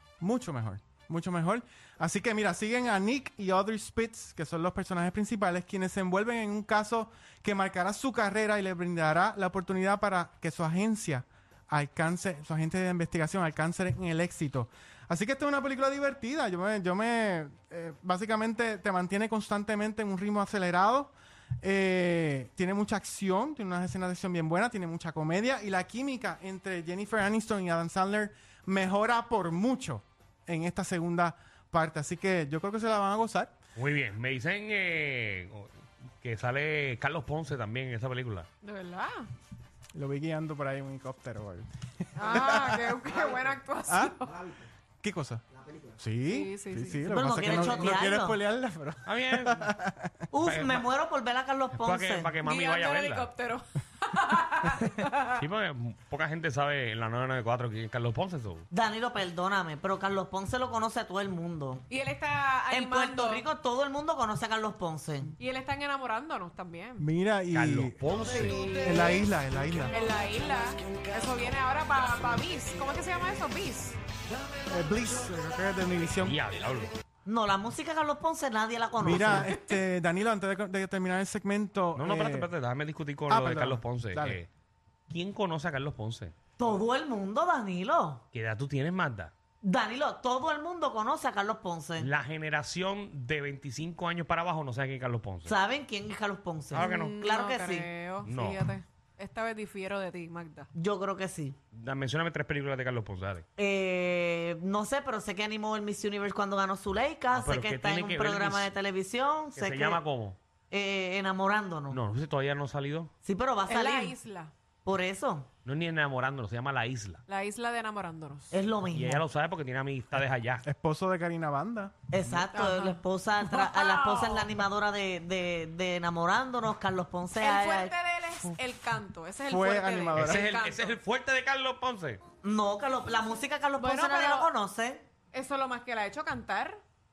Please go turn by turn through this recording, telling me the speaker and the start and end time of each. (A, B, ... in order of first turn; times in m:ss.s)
0:00.2-0:33.5 A
0:33.8-0:38.5 B
0:38.6-0:39.3 C
0:39.9-0:41.7 A
0:42.2-0:44.4 C
0:42.2-0:42.9 A
0:43.9-0:44.2 A
0:45.0-0:45.4 A
0:46.0-0:50.2 A
0:46.2-0:47.0 C
0:47.0-0:48.4 D
0:49.0-0:49.7 B
0:50.3-0:52.3 D
0:50.4-0:50.9 B
0:51.8-0:53.3 B
0:52.4-0:55.4 C
0:55.3-0:58.6 B
0:58.7-1:01.8 D
1:01.9-1:03.4 C
1:02.7-1:05.3 D
1:05.4-1:07.0 C
1:07.0-1:08.1 A
1:07.5-1:08.6 B
1:08.6-1:09.1 C
1:08.7-1:09.9 A
1:09.9-1:14.0 C
1:14.7-1:16.4 A
1:16.2-1:16.9 B
1:17.2-1:19.5 D
1:19.0-1:22.5 A
1:22.0-1:24.5 B
1:23.3-1:24.4 A
1:25.1-1:26.3 B
1:26.6-1:28.2 D
1:28.3-1:29.3 B
1:29.6-1:32.1 D
1:32.0-1:35.6 B
1:35.4-1:37.9 D
1:36.7-1:37.2 B
1:36.8-1:40.7 C
1:38.2-1:38.6 B
1:40.7-1:41.6 D
1:41.7-1:43.4 B
1:43.6-1:50.0 D
1:47.3-1:48.7 B
1:49.6-1:50.4 B
1:50.7-1:52.0 D
1:51.9-1:53.1 B
1:53.2-1:54.1 D
1:53.7-1:54.5 C
1:54.8-1:55.5 D
1:55.6-1:57.2 B
1:57.3-1:58.6 C
1:58.5-1:59.2 D
1:58.9-2:00.6 B
2:00.6-2:02.4 A
2:02.1-2:07.9 D
2:02.5-2:04.5 C
2:07.3-2:11.0 C
2:09.4-2:10.5 A
2:10.1-2:12.2 B
2:12.4-2:15.0 D
2:13.8-2:14.5 C
2:15.3-2:16.8 C